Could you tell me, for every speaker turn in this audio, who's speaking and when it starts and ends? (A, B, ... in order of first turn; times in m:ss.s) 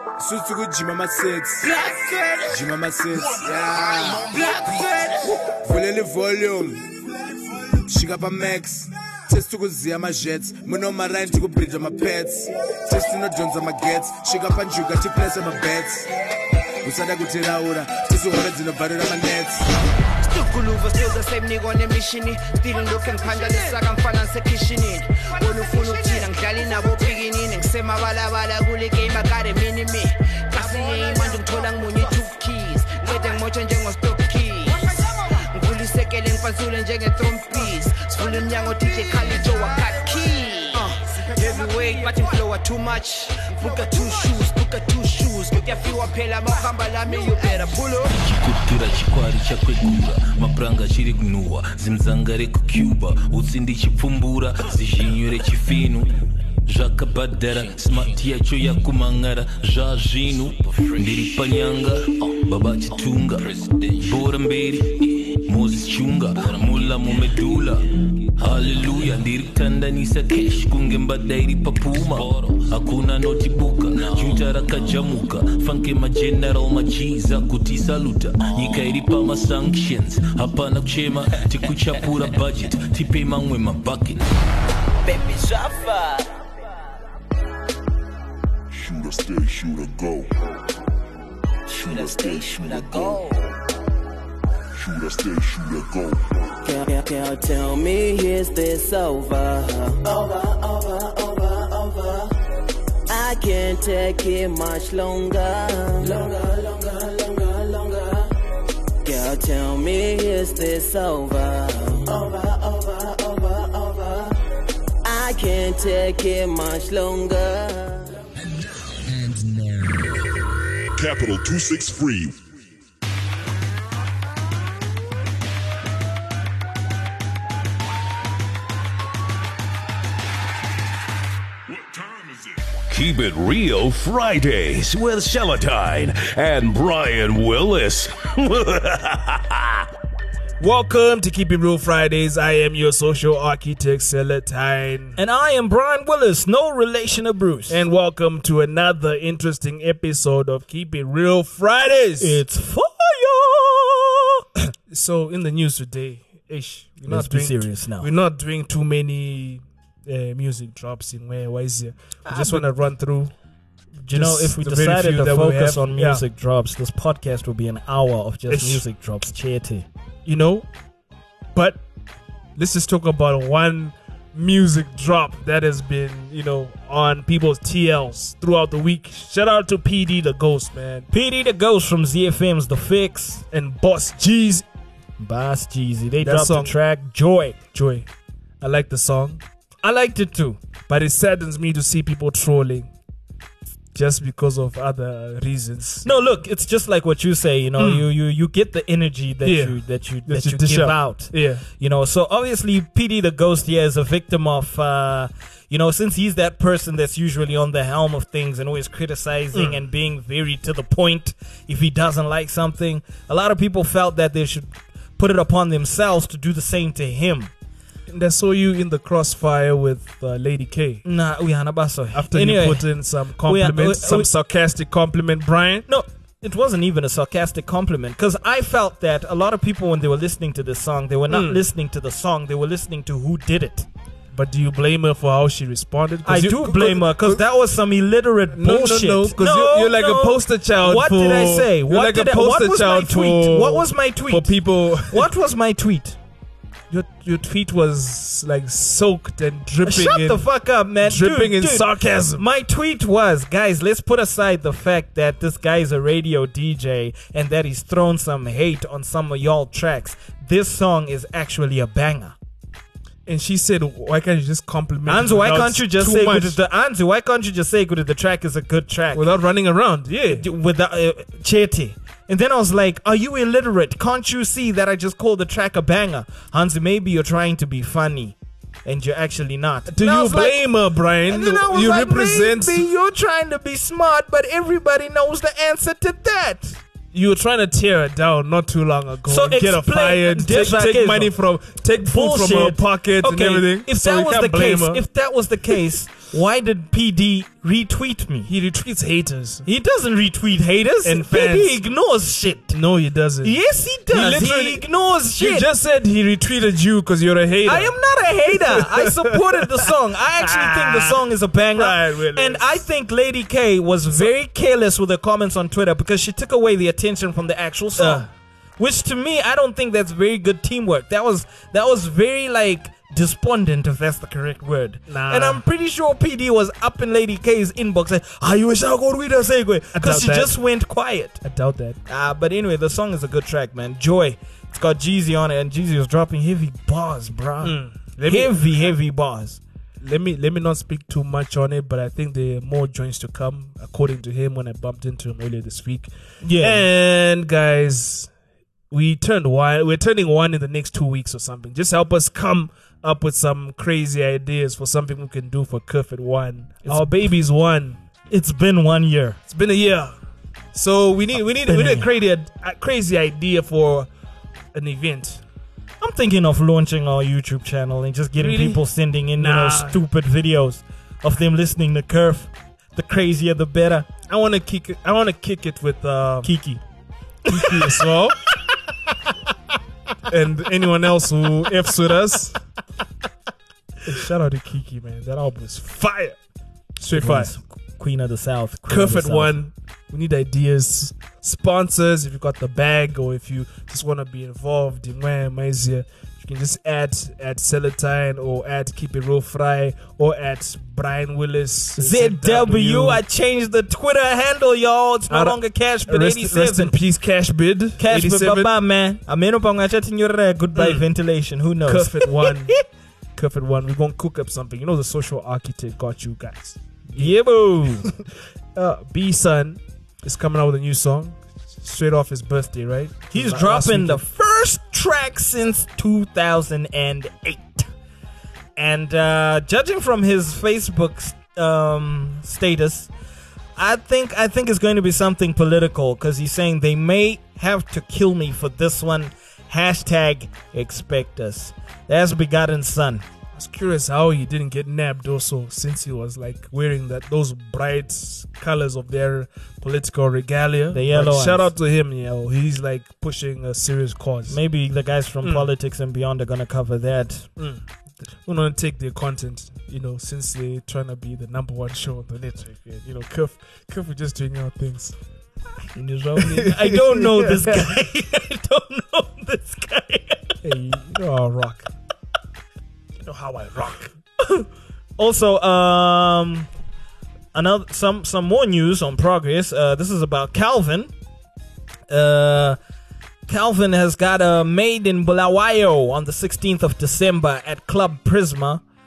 0:00.2-0:01.7 A
0:01.6-0:02.4 B
0:02.4-0:06.9 A
0:04.3-0:05.1 B
0:07.8-0:16.1 A
0:16.8-0:19.7 A
0:20.3-0:48.1 B
0:48.1-0:56.1 C
0:56.7-1:24.4 C
1:25.0-1:26.4 D
1:28.7-1:30.3 E
1:31.7-1:33.5 D
1:31.7-1:33.2 E
1:34.8-1:36.3 E
1:36.6-1:42.3 D
1:43.1-1:48.3 D
1:49.0-1:54.4 D
1:55.0-1:58.2 D
2:01.0-2:02.4 E
2:11.7-2:12.7 E
2:12.9-2:19.9 F
2:20.6-2:25.2 G
2:25.2-2:27.8 H
2:27.7-2:32.4 G
2:32.2-2:34.4 H
2:34.9-2:43.3 G
2:37.1-2:38.1 H
2:42.3-2:42.6 H
2:44.1-2:49.9 H
2:44.1-2:46.2 G
2:48.5-2:48.8 G
2:50.3-2:50.7 G
2:51.5-2:51.8 G
2:52.6-3:01.1 G
3:01.1-3:03.4 H
3:03.5-3:04.7 G
3:05.2-3:07.6 H
3:06.2-3:06.8 G
3:07.7-3:08.1 G
3:08.6-3:09.4 G
3:09.8-3:10.6 H
3:10.9-3:12.9 G
3:13.9-3:16.1 G
3:16.0-3:37.5 H
3:17.8-3:18.1 G
3:19.4-3:21.6 G
3:29.5-3:29.8 G
3:38.1-3:41.0 G
3:41.0-3:44.3 H
3:42.1-3:45.9 G
3:45.9-3:53.9 H
3:51.3-3:51.6 G
3:54.3-3:57.4 G
3:56.2-4:04.6 H
3:58.5-4:05.3 G
4:05.1-4:06.2 H
4:06.9-4:10.5 G
4:09.8-4:22.4 H
4:11.0-4:12.4 G
4:23.3-4:26.6 G
4:25.1-4:29.3 H
4:29.1-4:30.4 G
4:30.3-4:40.6 H
4:39.9-4:42.8 G
4:41.3-4:46.8 H
4:47.1-4:55.0 G
4:49.3-4:51.3 H
4:52.0-4:58.5 H
4:58.4-4:59.6 G
4:59.6-5:02.8 H
5:01.0-5:01.8 G
5:02.7-5:08.0 G
5:03.4-5:05.7 H
5:07.6-5:18.3 H
5:08.5-5:09.7 G
5:10.4-5:12.7 G
5:18.0-5:18.3 G
5:18.8-5:31.4 H
5:25.1-5:25.6 G
5:29.9-5:30.6 G
5:31.4-5:32.0 G
5:32.1-5:39.6 H
5:37.6-5:38.9 G
5:40.0-5:48.3 G
5:46.4-5:46.9 H
5:48.9-5:58.0 G
5:56.8-5:57.2 H
5:58.3-5:59.4 H
5:59.5-6:00.2 G
6:00.7-6:04.1 G
6:01.7-6:02.1 H
6:04.7-6:05.4 G
6:06.0-6:14.1 H
6:08.4-6:08.8 G
6:09.4-6:10.0 G
6:14.3-6:16.5 G
6:16.4-6:16.8 H
6:17.5-6:17.8 H
6:17.5-6:18.4 G
6:20.3-6:22.6 G
6:24.0-6:26.4 G
6:27.0-6:27.5 G
6:27.1-6:29.6 H
6:28.9-6:43.2 G
6:42.0-6:47.0 H
6:45.3-6:48.7 G
6:48.0-6:52.8 H
6:50.8-6:51.0 G
6:51.9-6:52.8 G
6:53.4-6:57.4 G
6:57.2-6:58.1 H
6:58.8-7:04.2 G
7:03.3-7:07.9 H
7:08.8-7:13.1 H
7:13.8-7:23.2 H
7:23.6-7:34.6 G
7:30.9-7:31.7 H
7:34.5-7:37.5 H
7:35.4-7:35.7 G
7:37.6-7:45.2 G
7:46.0-7:50.6 H
7:46.4-7:47.9 G
7:50.6-7:51.9 G
7:53.2-7:54.1 G
7:55.2-7:56.7 H
7:57.5-8:01.1 H
8:02.1-8:02.8 H
8:03.5-8:08.8 H